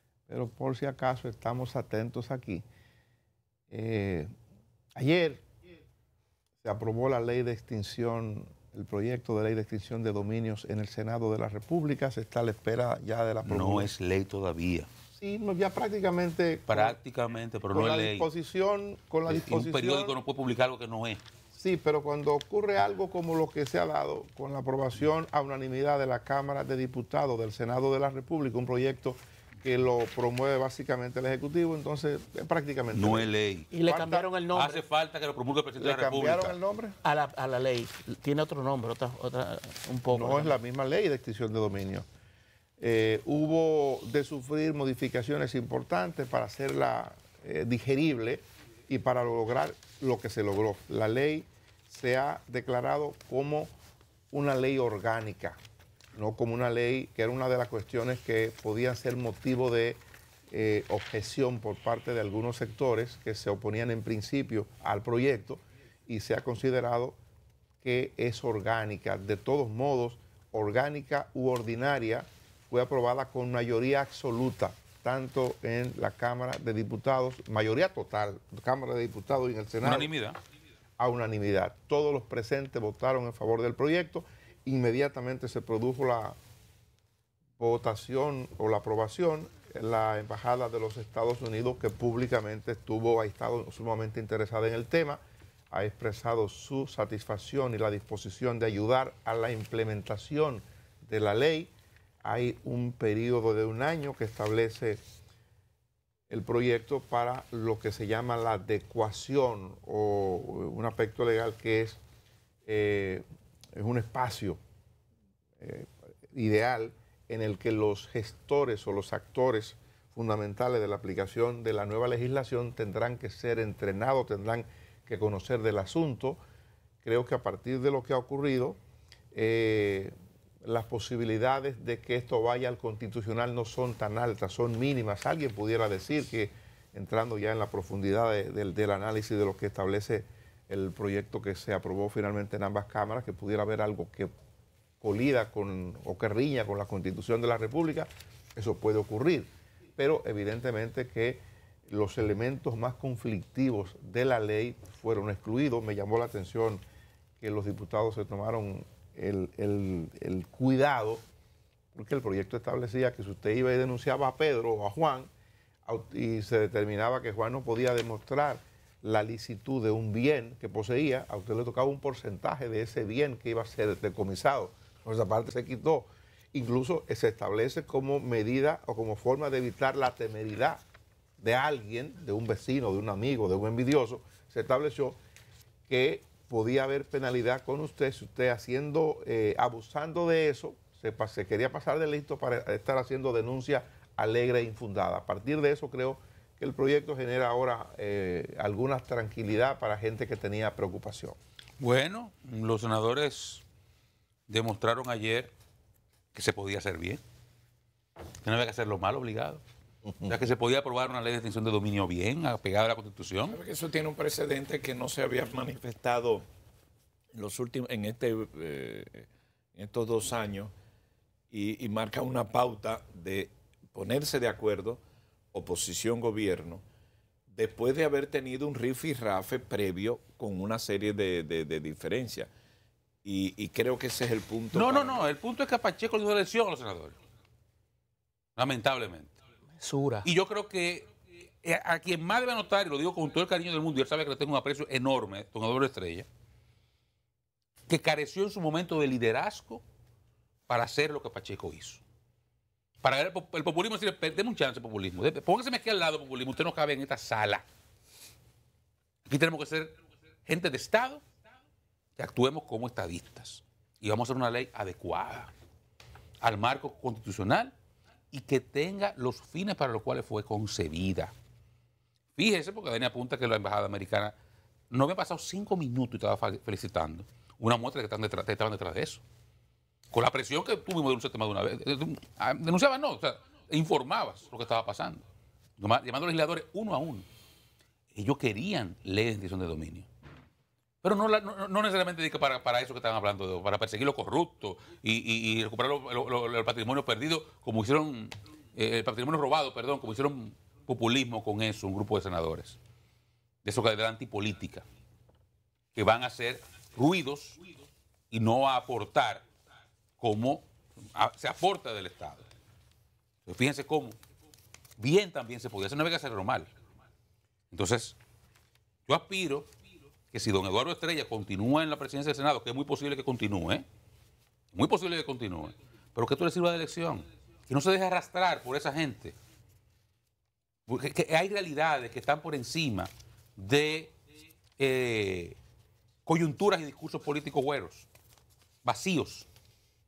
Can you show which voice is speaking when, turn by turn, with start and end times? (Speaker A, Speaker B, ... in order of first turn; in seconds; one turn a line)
Speaker A: 0.3-2.6
Speaker A: 3.7-4.3
Speaker A: 4.9-5.4
Speaker A: 6.6-13.9
Speaker B: 13.4-14.9
Speaker A: 15.1-17.0
Speaker B: 16.7-18.3
Speaker A: 17.7-20.1
Speaker B: 19.3-21.2
Speaker A: 21.5-33.3
Speaker B: 32.9-33.7
Speaker C: 33.7-34.8
Speaker A: 33.8-34.3
Speaker B: 34.5-36.5
Speaker A: 35.8-37.0
Speaker C: 37.0-40.5
Speaker A: 40.1-42.0
Speaker A: 42.8-53.7
Speaker A: 54.3-55.6
Speaker A: 56.1-67.2
Speaker A: 67.8-80.1
Speaker B: 79.8-80.4
Speaker A: 81.0-86.3
Speaker A: 87.6-101.7
Speaker A: 102.2-105.0
Speaker A: 106.3-112.0
Speaker A: 112.6-113.2
Speaker A: 113.7-114.6
Speaker A: 115.6-126.4
Speaker A: 127.0-128.8
Speaker A: 129.3-144.3
Speaker A: 145.0-156.8
Speaker A: 157.4-161.2
Speaker A: 161.9-165.3
Speaker A: 165.8-180.8
Speaker A: 181.4-185.2
Speaker A: 185.9-201.3
Speaker B: 201.8-203.6
Speaker B: 204.5-205.5
Speaker B: 206.3-207.2
Speaker B: 208.4-209.6
Speaker B: 210.2-213.6
Speaker D: 213.5-216.4
Speaker D: 217.3-220.7
Speaker D: 221.5-225.0
Speaker D: 225.5-226.8
Speaker D: 227.5-232.5
Speaker D: 233.2-235.3
Speaker B: 234.7-237.1
Speaker B: 238.6-239.3
Speaker C: 239.8-240.2
Speaker B: 240.2-241.1
Speaker B: 241.6-246.2
Speaker B: 247.9-249.8
Speaker B: 250.7-252.0
Speaker B: 253.0-257.6
Speaker B: 259.2-259.9
Speaker B: 260.4-261.2
Speaker B: 262.2-265.5
Speaker B: 266.4-267.7
Speaker B: 268.3-271.3
Speaker B: 272.4-274.3
Speaker B: 274.9-279.2
Speaker B: 280.1-285.2
Speaker B: 285.8-287.2
Speaker B: 288.1-290.1
Speaker B: 291.0-302.8
Speaker B: 303.6-304.8
Speaker B: 305.9-307.6
Speaker B: 308.3-309.4
Speaker B: 310.2-312.4
Speaker B: 313.4-314.1
Speaker B: 315.0-316.7
Speaker B: 317.7-318.2
Speaker B: 319.1-319.7
Speaker B: 320.3-323.8
Speaker B: 324.7-329.3
Speaker B: 330.9-334.1
Speaker B: 334.8-335.6
Speaker B: 336.2-338.1
Speaker B: 338.8-339.5